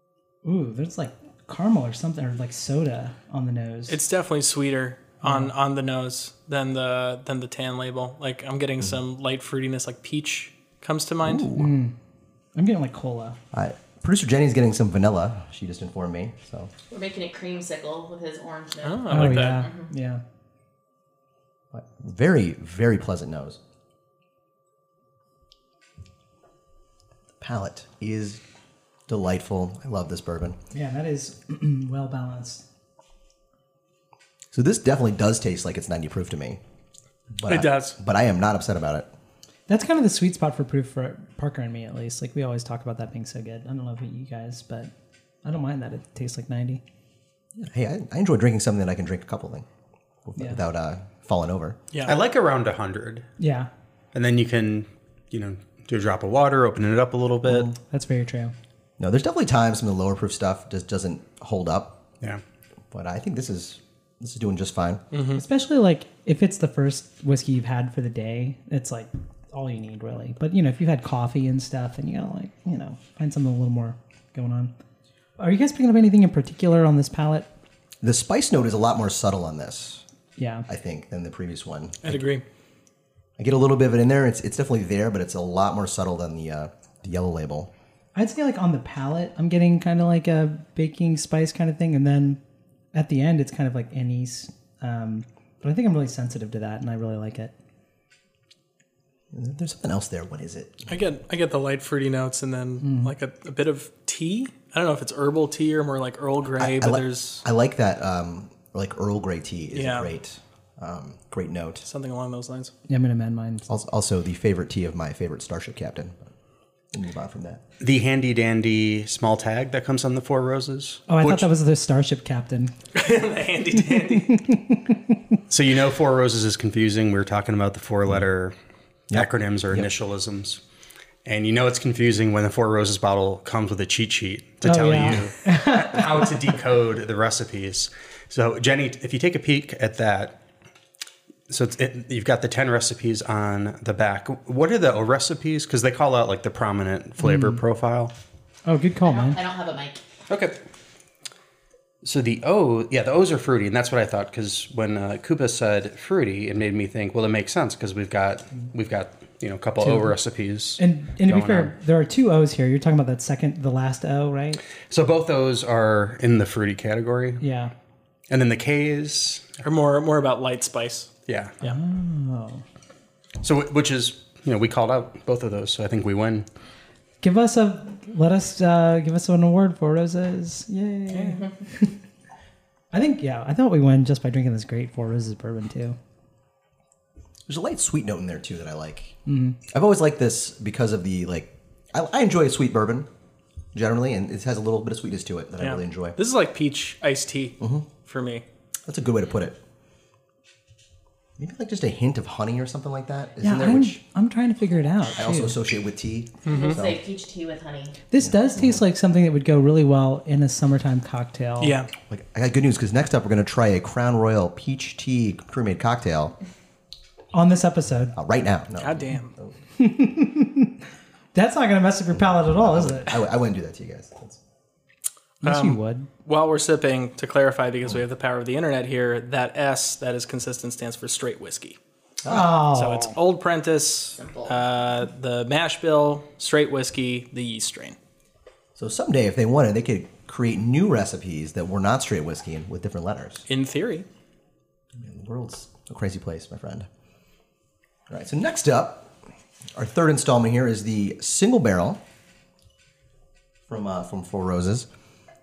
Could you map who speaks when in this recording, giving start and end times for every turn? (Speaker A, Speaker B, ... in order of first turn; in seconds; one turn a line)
Speaker A: 0.4-4.0
Speaker B: 3.9-11.5
Speaker A: 5.2-5.5
Speaker C: 11.2-11.7
Speaker A: 11.5-11.9
Speaker A: 12.5-13.4
Speaker C: 13.5-16.7
Speaker D: 16.9-19.9
Speaker B: 18.8-19.6
Speaker A: 19.1-20.2
Speaker C: 21.7-23.6
Speaker C: 27.4-28.4
Speaker C: 29.1-30.6
Speaker A: 30.7-32.6
Speaker C: 34.5-36.6
Speaker C: 37.3-39.1
Speaker B: 37.5-38.0
Speaker A: 39.7-44.9
Speaker A: 45.4-46.8
Speaker C: 47.5-49.6
Speaker C: 50.2-51.8
Speaker E: 52.0-53.3
Speaker A: 53.4-53.7
Speaker E: 54.1-57.7
Speaker A: 57.7-58.5
Speaker C: 59.0-62.0
Speaker C: 62.9-65.0
Speaker B: 65.1-65.4
Speaker A: 65.3-74.7
Speaker A: 75.4-77.5
Speaker C: 78.0-80.0
Speaker A: 80.4-80.7
Speaker C: 80.7-82.2
Speaker B: 82.0-82.4
Speaker C: 83.4-87.7
Speaker A: 88.1-92.4
Speaker A: 92.9-97.5
Speaker C: 99.3-101.0
Speaker B: 100.9-107.4
Speaker A: 102.8-103.1
Speaker C: 106.6-111.8
Speaker B: 109.7-110.1
Speaker B: 111.8-112.7
Speaker A: 112.9-113.7
Speaker C: 113.7-116.3
Speaker C: 116.9-117.6
Speaker E: 117.8-121.5
Speaker A: 121.1-122.7
Speaker B: 122.9-124.4
Speaker A: 124.1-125.0
Speaker E: 125.5-128.5
Speaker C: 129.1-129.9
Speaker E: 129.1-130.6
Speaker E: 131.2-140.4
Speaker A: 134.6-136.5
Speaker E: 141.5-148.1
Speaker A: 147.2-147.6
Speaker A: 148.7-149.4
Speaker D: 149.0-150.0
Speaker E: 150.3-150.6
Speaker E: 152.0-161.7
Speaker A: 159.8-160.1
Speaker A: 160.8-164.6
Speaker E: 164.9-167.4
Speaker A: 167.4-167.7
Speaker E: 168.3-169.6
Speaker B: 169.6-171.8
Speaker E: 171.3-171.6
Speaker A: 171.6-172.6
Speaker E: 173.4-176.4
Speaker A: 177.2-181.9
Speaker A: 182.9-186.0
Speaker C: 187.5-189.2
Speaker A: 189.2-189.6
Speaker C: 189.7-193.1
Speaker C: 193.7-196.2
Speaker B: 195.6-198.4
Speaker C: 197.6-197.8
Speaker C: 198.8-199.6
Speaker C: 201.4-204.0
Speaker A: 203.4-205.6
Speaker C: 205.2-207.0
Speaker B: 206.4-206.8
Speaker D: 206.5-208.0
Speaker A: 208.1-211.8
Speaker C: 208.2-208.8
Speaker B: 211.6-211.9
Speaker C: 212.1-216.3
Speaker A: 217.3-218.1
Speaker C: 218.2-219.5
Speaker B: 218.8-219.3
Speaker A: 219.8-220.8
Speaker A: 221.3-223.2
Speaker C: 222.1-224.4
Speaker A: 225.4-226.1
Speaker B: 225.4-231.8
Speaker A: 232.2-233.2
Speaker B: 232.4-238.0
Speaker D: 234.2-234.6
Speaker C: 238.8-243.4
Speaker B: 243.5-244.1
Speaker C: 244.9-246.9
Speaker C: 248.1-249.1
Speaker C: 249.7-252.0
Speaker C: 253.7-254.9